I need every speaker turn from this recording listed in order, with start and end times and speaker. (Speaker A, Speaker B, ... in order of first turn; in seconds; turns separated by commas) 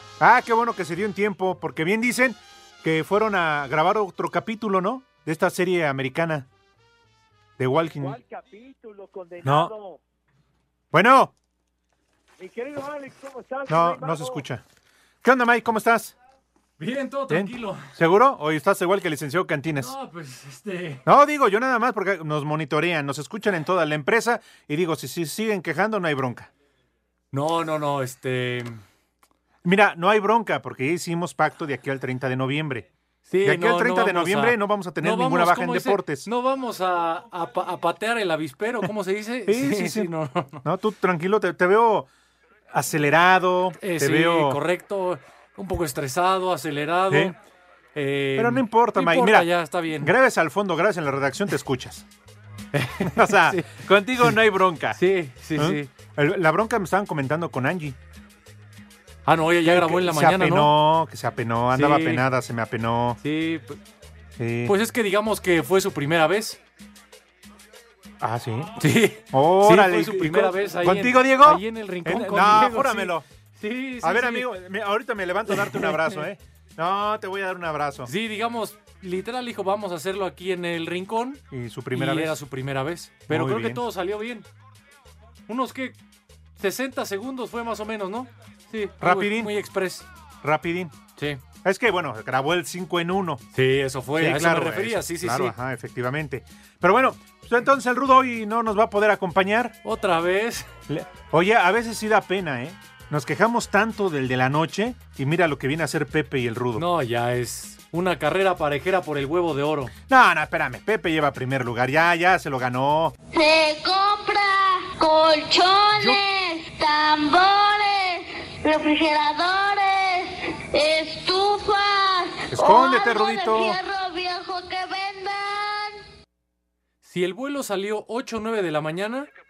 Speaker A: 0.2-6.5, Speaker A: 7.6-8.2, Speaker B: 8.0-10.0, Speaker A: 9.4-9.7, Speaker A: 10.9-11.3, Speaker B: 12.4-14.4, Speaker A: 13.7-14.6, Speaker A: 15.2-16.1, Speaker C: 16.8-17.9, Speaker A: 17.3-19.9, Speaker C: 19.8-21.0, Speaker A: 21.0-26.5, Speaker C: 27.3-28.8, Speaker A: 29.6-32.9, Speaker C: 33.3-40.6, Speaker A: 33.4-36.3, Speaker A: 39.5-40.1, Speaker A: 40.6-42.1, Speaker A: 42.7-44.6, Speaker C: 43.8-47.4, Speaker A: 47.1-47.3, Speaker C: 47.9-50.1, Speaker A: 48.4-49.5, Speaker A: 50.0-52.0, Speaker C: 52.7-53.8, Speaker A: 53.0-55.0, Speaker C: 55.0-55.9, Speaker A: 55.5-58.0, Speaker C: 59.2-60.7, Speaker A: 59.6-63.2, Speaker C: 61.7-62.2, Speaker C: 63.2-63.8, Speaker A: 64.4-64.7, Speaker C: 64.7-66.6, Speaker A: 68.2-68.7, Speaker C: 68.8-74.5, Speaker A: 69.3-73.2, Speaker A: 74.0-78.1, Speaker C: 75.5-76.2, Speaker C: 78.1-81.4, Speaker A: 81.5-82.3, Speaker C: 81.9-84.4, Speaker A: 83.3-83.8, Speaker C: 85.5-86.0, Speaker C: 86.6-90.0, Speaker A: 89.0-89.5, Speaker A: 90.4-90.9, Speaker A: 91.6-93.4, Speaker C: 93.5-95.5, Speaker A: 94.2-99.7, Speaker C: 99.8-100.7, Speaker A: 100.9-106.8, Speaker C: 106.8-109.9, Speaker A: 110.1-113.1, Speaker D: 113.3-126.0, Speaker A: 122.5-123.8, Speaker C: 127.0-129.3